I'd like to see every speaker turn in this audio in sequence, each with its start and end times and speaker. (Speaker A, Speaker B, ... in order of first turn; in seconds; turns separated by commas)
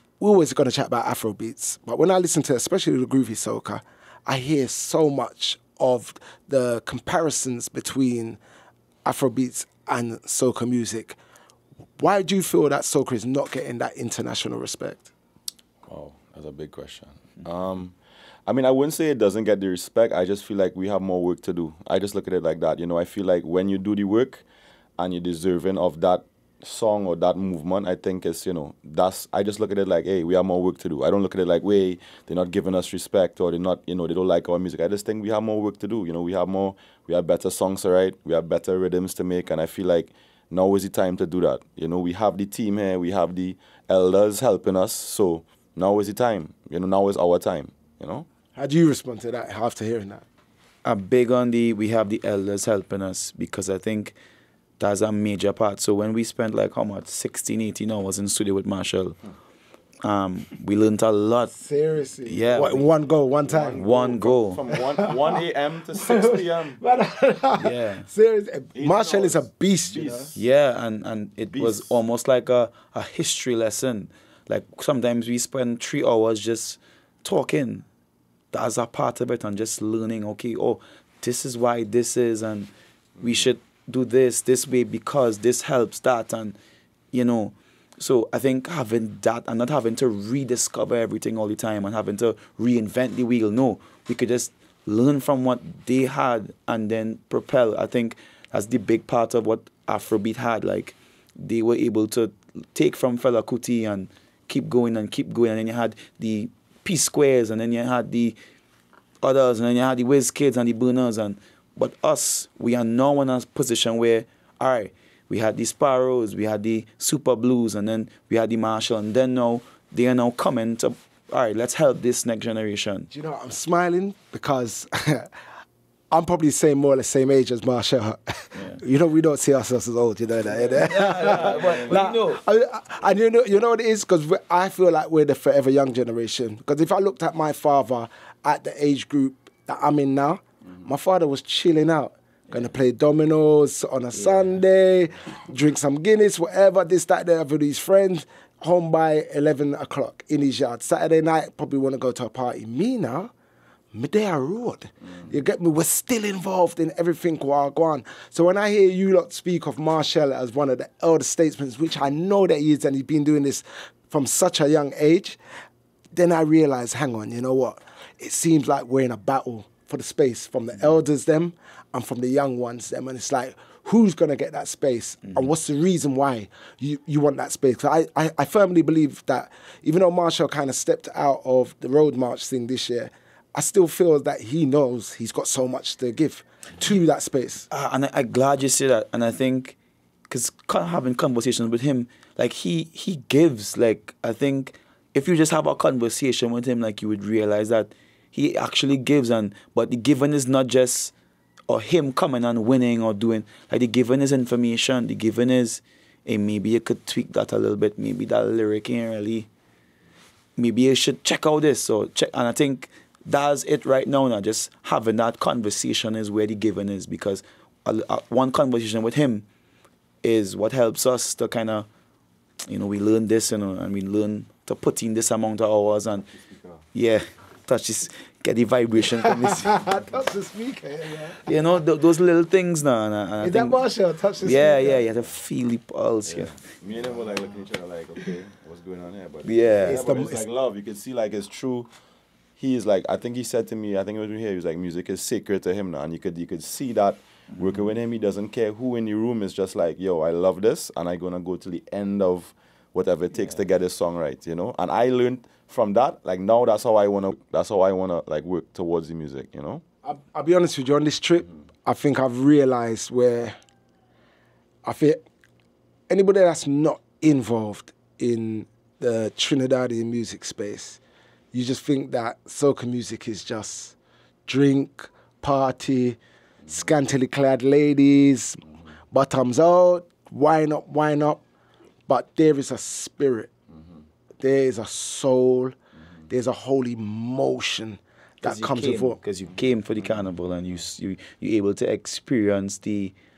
Speaker A: 0.2-8.4, Speaker A: 9.1-11.2, Speaker A: 12.0-15.1, Speaker B: 15.9-17.9, Speaker B: 18.5-24.4, Speaker B: 25.0-48.3, Speaker A: 48.5-50.2, Speaker C: 50.8-54.1, Speaker C: 54.8-59.2, Speaker C: 60.0-61.5, Speaker A: 61.5-63.9, Speaker C: 62.3-62.9, Speaker B: 63.4-66.8, Speaker C: 63.8-64.6, Speaker A: 64.7-65.4, Speaker A: 66.0-70.3, Speaker C: 67.6-68.1, Speaker B: 68.8-70.4, Speaker C: 70.3-77.8, Speaker B: 71.5-72.0, Speaker C: 78.5-86.6, Speaker C: 87.1-108.4, Speaker C: 109.2-123.1, Speaker A: 123.1-125.3, Speaker A: 126.1-153.3, Speaker C: 130.6-132.4, Speaker B: 131.3-131.7, Speaker C: 144.1-144.6, Speaker A: 153.9-165.4, Speaker A: 166.1-187.7, Speaker C: 175.2-175.5, Speaker C: 187.7-189.8, Speaker C: 190.3-201.1, Speaker C: 201.7-209.5, Speaker C: 210.6-219.5, Speaker C: 220.2-221.9, Speaker C: 222.7-226.3, Speaker B: 226.5-226.8, Speaker C: 226.9-229.8, Speaker A: 229.2-231.4, Speaker C: 231.4-233.8, Speaker A: 233.4-235.1, Speaker C: 234.4-236.6, Speaker B: 236.3-241.9, Speaker C: 239.4-240.0, Speaker A: 239.8-240.4, Speaker B: 242.6-259.8, Speaker A: 260.0-263.6, Speaker A: 264.9-265.2, Speaker A: 266.1-271.0, Speaker A: 271.5-273.9, Speaker A: 274.5-281.4, Speaker A: 282.1-283.5, Speaker A: 284.4-285.8, Speaker A: 286.3-289.2, Speaker C: 288.4-293.1